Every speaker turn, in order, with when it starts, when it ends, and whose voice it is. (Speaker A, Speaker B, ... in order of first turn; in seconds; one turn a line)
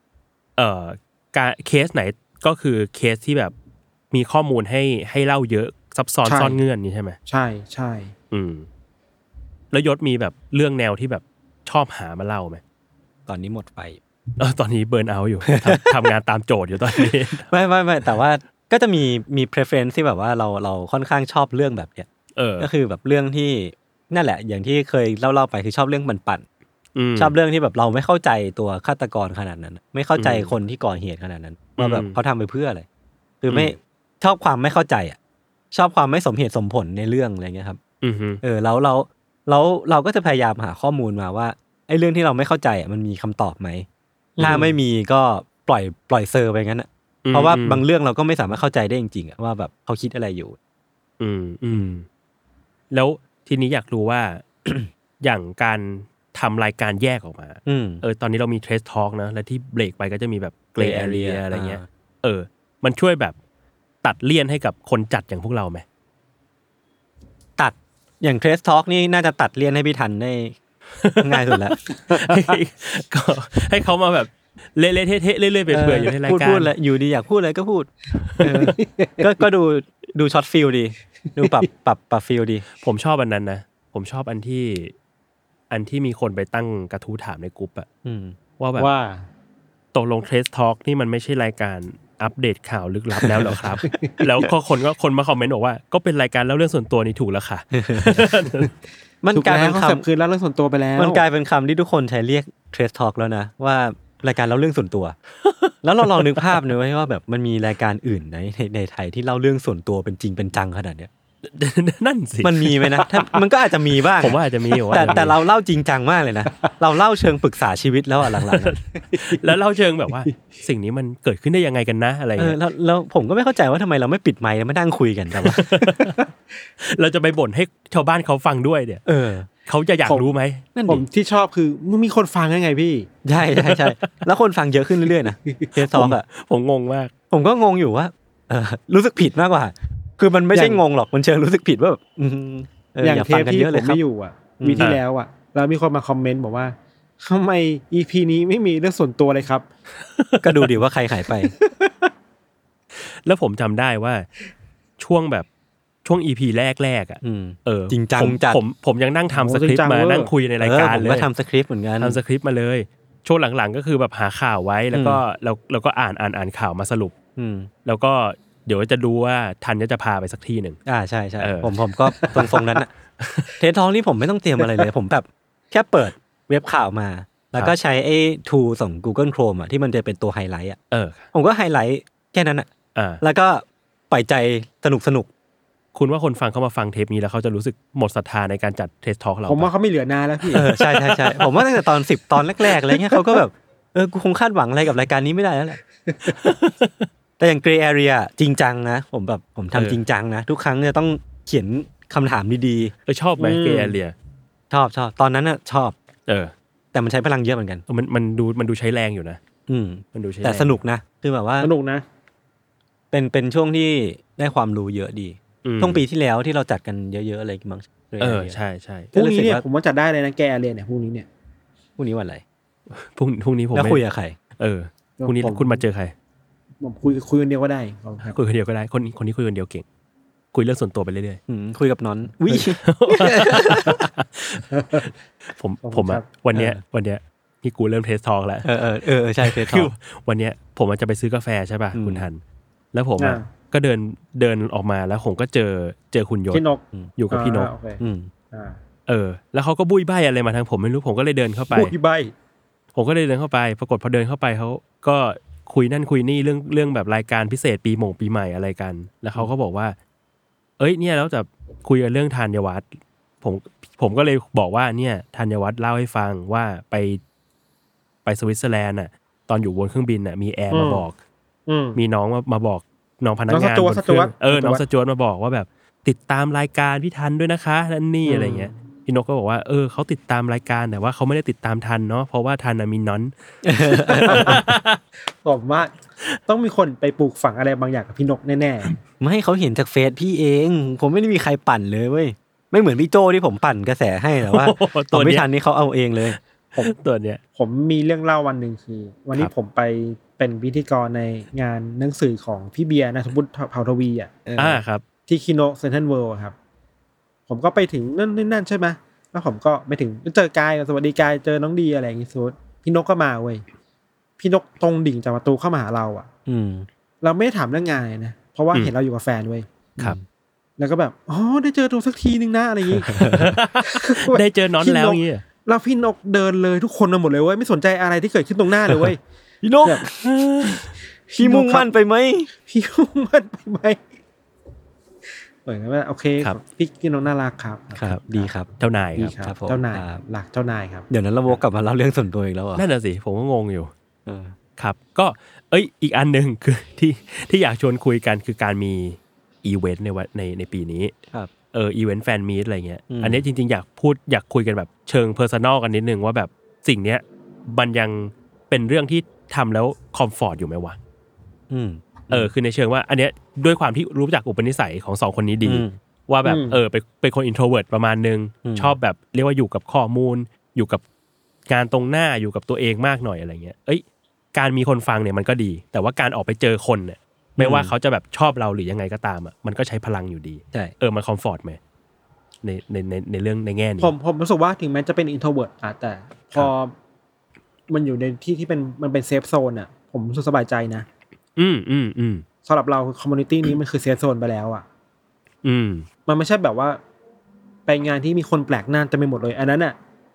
Speaker A: 0.6-3.5
Speaker A: 4.1-7.2
Speaker B: 6.2-6.6
Speaker B: 7.3-8.1
Speaker A: 8.3-8.7
Speaker A: 9.7-12.6
Speaker C: 13.3-14.0
Speaker A: 14.4-17.5
Speaker C: 15.5-16.0
Speaker C: 16.9-22.1
Speaker A: 22.4-22.7
Speaker C: 22.6-26.4
Speaker A: 26.9-27.3
Speaker C: 27.2-32.8
Speaker A: 30.1-30.5
Speaker A: 31.8-32.2
Speaker C: 33.4-35.1
Speaker A: 33.5-33.7
Speaker C: 35.7-37.8
Speaker A: 38.0-38.4
Speaker C: 38.4-43.9
Speaker B: 44.4-44.6
Speaker A: 44.4-44.7
Speaker C: 44.4-50.6
Speaker A: 47.2-47.8
Speaker A: 51.2-52.0
Speaker A: 52.9-54.4
Speaker A: 55.2-63.4
Speaker C: 57.7-58.0
Speaker C: 60.8-61.9
Speaker A: 64.0-65.8
Speaker C: 67.6-70.5
Speaker A: 71.0-76.7
Speaker C: 71.2-71.8
Speaker B: 72.1-72.5
Speaker C: 75.7-82.7
Speaker B: 78.4-79.3
Speaker B: 81.3-81.6
Speaker A: 82.8-84.9
Speaker A: 85.7-87.9
Speaker C: 88.0-88.3
Speaker A: 88.6-88.9
Speaker B: 88.8-89.2
Speaker A: 89.9-98.7
Speaker C: 93.2-93.7
Speaker B: 93.8-94.2
Speaker C: 97.7-98.2
Speaker C: 99.2-100.0
Speaker B: 99.3-101.2
Speaker C: 101.0-105.2
Speaker A: 105.4-106.6
Speaker C: 105.8-111.1
Speaker A: 111.4-113.0
Speaker C: 112.4-114.4
Speaker A: 114.1-115.4
Speaker C: 114.9-118.8
Speaker A: 118.5-122.6
Speaker B: 119.1-119.4
Speaker C: 122.4-125.7
Speaker A: 125.4-126.2
Speaker B: 125.8-126.2
Speaker A: 126.8-129.0
Speaker C: 129.1-129.5
Speaker A: 129.7-130.7
Speaker C: 130.7-131.0
Speaker B: 130.8-133.1
Speaker C: 133.2-136.2
Speaker A: 133.6-134.2
Speaker A: 135.8-137.1
Speaker C: 137.3-144.0
Speaker B: 140.5-140.8
Speaker B: 143.0-149.7
Speaker C: 144.6-144.9
Speaker A: 150.0-150.7
Speaker C: 150.4-151.5
Speaker B: 151.6-152.1
Speaker A: 152.9-154.2
Speaker A: 155.0-155.5
Speaker A: 156.0-161.3
Speaker C: 157.2-158.6
Speaker B: 159.3-160.3
Speaker C: 160.6-162.2
Speaker A: 162.0-167.1
Speaker C: 164.9-165.2
Speaker C: 167.3-167.7
Speaker A: 167.8-170.8
Speaker C: 170.9-172.9
Speaker A: 171.4-171.7
Speaker A: 173.2-173.5
Speaker C: 173.6-180.8
Speaker A: 180.9-181.2
Speaker C: 181.3-182.7
Speaker A: 182.9-183.2
Speaker C: 183.2-185.3
Speaker A: 185.9-189.7
Speaker B: 189.5-190.7
Speaker A: 190.5-191.6
Speaker C: 190.5-195.8
Speaker B: 196.1-196.4
Speaker A: 196.4-197.1
Speaker C: 197.4-202.9
Speaker A: 199.7-200.0
Speaker A: 203.1-204.1
Speaker B: 203.4-204.0
Speaker C: 204.7-205.9
Speaker A: 206.3-206.5
Speaker C: 206.9-207.8
Speaker A: 207.9-209.4
Speaker C: 209.7-211.7
Speaker A: 210.1-210.8
Speaker B: 211.6-212.0
Speaker C: 213.1-218.6
Speaker A: 215.6-216.0
Speaker A: 218.2-219.1
Speaker C: 219.1-219.6
Speaker B: 219.1-221.3
Speaker C: 222.0-222.4
Speaker A: 222.9-224.0
Speaker C: 223.7-224.3
Speaker A: 224.6-226.1
Speaker B: 225.2-225.8
Speaker B: 226.8-228.3
Speaker A: 228.3-229.8
Speaker A: 230.5-231.4
Speaker C: 231.5-234.0
Speaker A: 232.5-238.7
Speaker B: 234.7-235.1
Speaker B: 235.8-236.2
Speaker C: 238.6-239.9
Speaker A: 239.4-242.4
Speaker C: 241.9-242.2
Speaker A: 242.9-246.6
Speaker B: 243.2-243.4
Speaker B: 246.5-248.0
Speaker A: 247.2-247.7
Speaker C: 248.0-248.3
Speaker B: 248.5-248.8
Speaker A: 249.1-251.9
Speaker B: 251.7-252.3
Speaker A: 252.9-259.9
Speaker A: 260.8-262.9
Speaker A: 263.4-267.2
Speaker A: 268.2-271.1
Speaker B: 270.7-271.0
Speaker B: 271.7-272.0
Speaker A: 271.9-283.3
Speaker B: 273.5-274.8
Speaker B: 278.2-278.7
Speaker C: 283.6-284.6
Speaker A: 283.9-285.0
Speaker B: 284.1-284.6
Speaker B: 285.4-285.9
Speaker B: 286.5-288.9
Speaker C: 289.2-296.4
Speaker A: 294.4-295.5
Speaker A: 296.3-297.4
Speaker B: 297.6-304.4
Speaker C: 304.4-304.8
Speaker A: 304.6-305.0
Speaker B: 305.3-306.5
Speaker B: 307.5-313.6
Speaker B: 314.4-316.3
Speaker C: 316.5-316.9
Speaker B: 317.2-319.7
Speaker C: 320.0-320.2
Speaker B: 320.8-329.2
Speaker C: 323.1-323.5
Speaker A: 323.1-325.4
Speaker C: 329.6-330.8
Speaker A: 330.2-330.9
Speaker B: 331.3-331.9
Speaker C: 331.4-332.5
Speaker B: 332.6-334.0
Speaker B: 335.6-338.5
Speaker C: 337.9-338.7
Speaker A: 338.8-339.3
Speaker B: 339.1-341.1
Speaker C: 339.4-340.2
Speaker C: 341.1-342.9
Speaker A: 342.8-343.9
Speaker C: 344.2-344.5
Speaker A: 344.8-351.1
Speaker A: 351.7-361.0
Speaker C: 353.1-353.4
Speaker C: 361.7-362.5
Speaker A: 362.3-371.0
Speaker C: 365.6-366.0
Speaker B: 366.4-366.8
Speaker C: 368.6-368.9
Speaker A: 371.7-381.8
Speaker C: 377.6-377.9
Speaker A: 382.6-384.1
Speaker B: 384.0-386.9
Speaker B: 387.9-391.1
Speaker A: 391.6-392.4
Speaker B: 392.6-394.8
Speaker A: 395.6-396.1
Speaker B: 396.2-397.0
Speaker B: 397.9-399.9